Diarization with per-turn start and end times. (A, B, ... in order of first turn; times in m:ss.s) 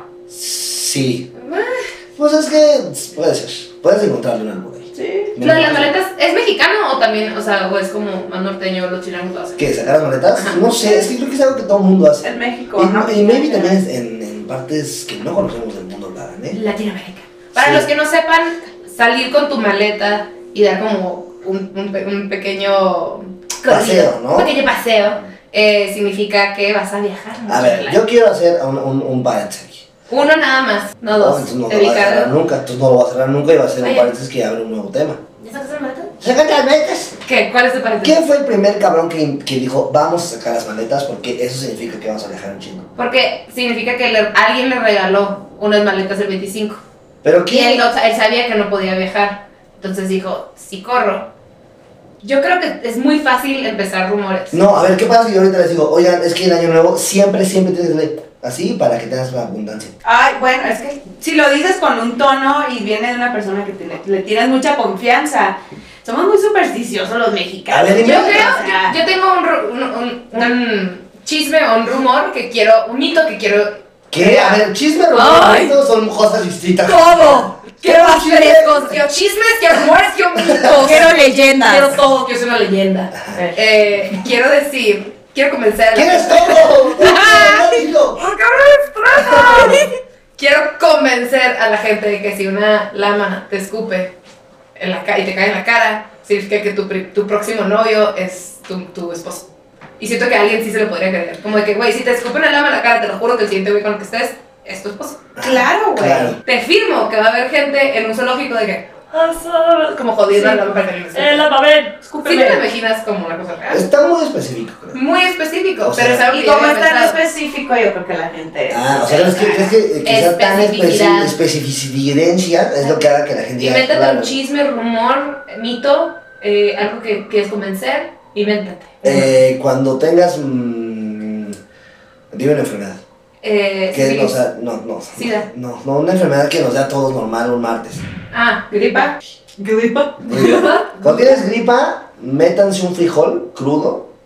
0:00.3-0:01.3 A
0:01.4-0:01.9 B
0:02.2-0:05.9 A
0:04.9-0:05.3 C
0:05.4-0:09.7 B
0:09.6-0:16.6 A
0:10.3-0:11.0 B
0:12.2-0:13.8 C
0:16.5-0:28.0 B
0:17.6-0:17.9 A
0:23.7-0:24.5 A
0:27.5-0:29.8 A
0:30.1-0:32.3 B
0:31.1-0:35.2 A
0:33.8-0:34.1 B
0:35.4-0:36.1 B
0:36.2-0:37.1 A
0:37.2-0:38.2 B
0:38.0-0:42.9 A
0:43.0-0:46.8 B
0:47.2-0:47.8 A
0:47.5-0:51.3 B
0:52.2-0:54.6 B
0:54.5-0:59.9 A
1:00.0-1:09.0 C
1:07.7-1:08.5 A
1:08.0-1:15.8 B
1:14.1-1:19.0 A
1:16.8-1:29.8 B
1:20.4-1:20.9 A
1:20.8-1:21.9 C
1:25.9-1:28.2 A
1:29.2-1:29.8 A
1:29.4-1:29.9 C
1:30.4-1:34.1 B
1:34.8-1:39.5 B
1:40.0-1:45.2 B
1:45.4-1:46.4 A
1:45.4-1:46.4 C
1:46.4-1:51.5 B
1:50.3-1:52.6 C
1:52.2-1:53.8 B
1:53.7-1:55.0 A
1:54.9-1:57.2 B
1:55.8-1:56.2 A
1:56.3-1:59.8 C
1:58.7-2:04.4 A
2:00.0-2:01.4 B
2:03.6-2:09.3 B
2:09.0-2:11.6 A
2:12.3-2:13.0 A
2:13.4-2:14.4 B
2:13.9-2:18.0 A
2:15.1-2:15.5 B
2:18.3-2:19.1 B
2:18.7-2:20.7 C
2:20.2-2:24.1 A
2:20.3-2:21.1 B